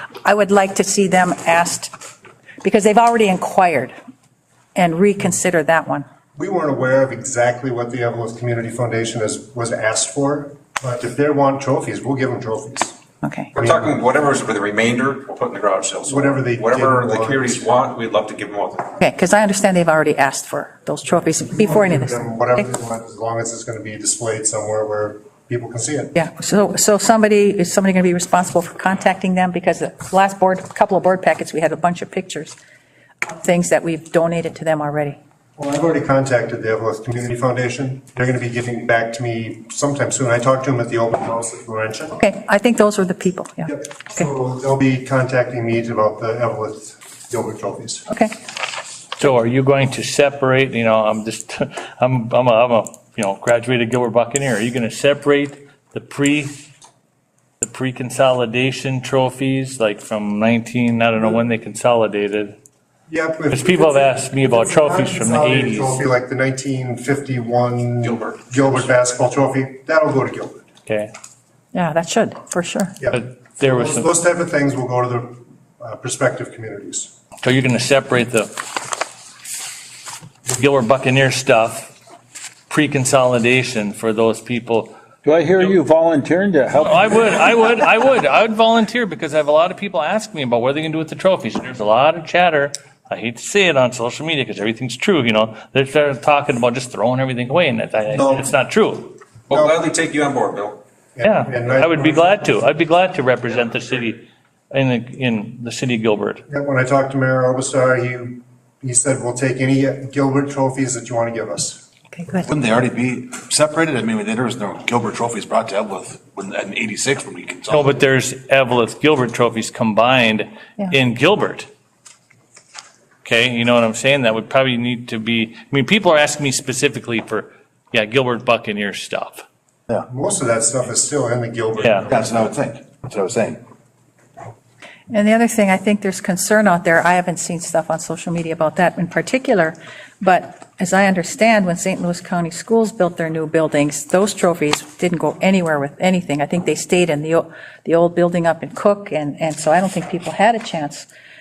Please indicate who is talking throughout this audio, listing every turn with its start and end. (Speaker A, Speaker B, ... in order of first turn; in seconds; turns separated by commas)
Speaker A: 0.2-1.9, Speaker A: 2.6-3.9, Speaker A: 4.8-6.0, Speaker B: 6.4-13.0, Speaker A: 13.2-13.5, Speaker C: 13.6-18.9, Speaker B: 13.6-13.9, Speaker B: 16.1-17.7, Speaker A: 19.0-22.4, Speaker B: 21.6-26.1, Speaker A: 26.1-32.6, Speaker A: 33.2-35.2, Speaker B: 35.6-42.2, Speaker A: 42.2-44.0, Speaker B: 43.7-48.0, Speaker A: 48.1-48.3, Speaker D: 49.2-56.6, Speaker D: 57.6-62.5, Speaker B: 63.1-70.7, Speaker D: 63.5-66.0, Speaker C: 68.0-68.8, Speaker A: 71.7-73.0, Speaker B: 73.0-77.1, Speaker D: 73.1-74.1, Speaker D: 77.4-78.5, Speaker D: 80.5-81.9, Speaker D: 82.7-84.9, Speaker E: 85.2-87.6, Speaker D: 86.7-99.2, Speaker B: 98.1-98.5, Speaker C: 99.5-100.8, Speaker B: 99.5-99.8, Speaker B: 101.2-102.4, Speaker D: 101.2-106.4, Speaker B: 106.5-111.8, Speaker A: 112.1-112.5, Speaker F: 112.5-118.0, Speaker D: 117.7-121.7, Speaker D: 123.2-129.4, Speaker B: 130.1-132.5, Speaker D: 131.8-132.1, Speaker F: 132.1-133.6, Speaker A: 135.1-151.1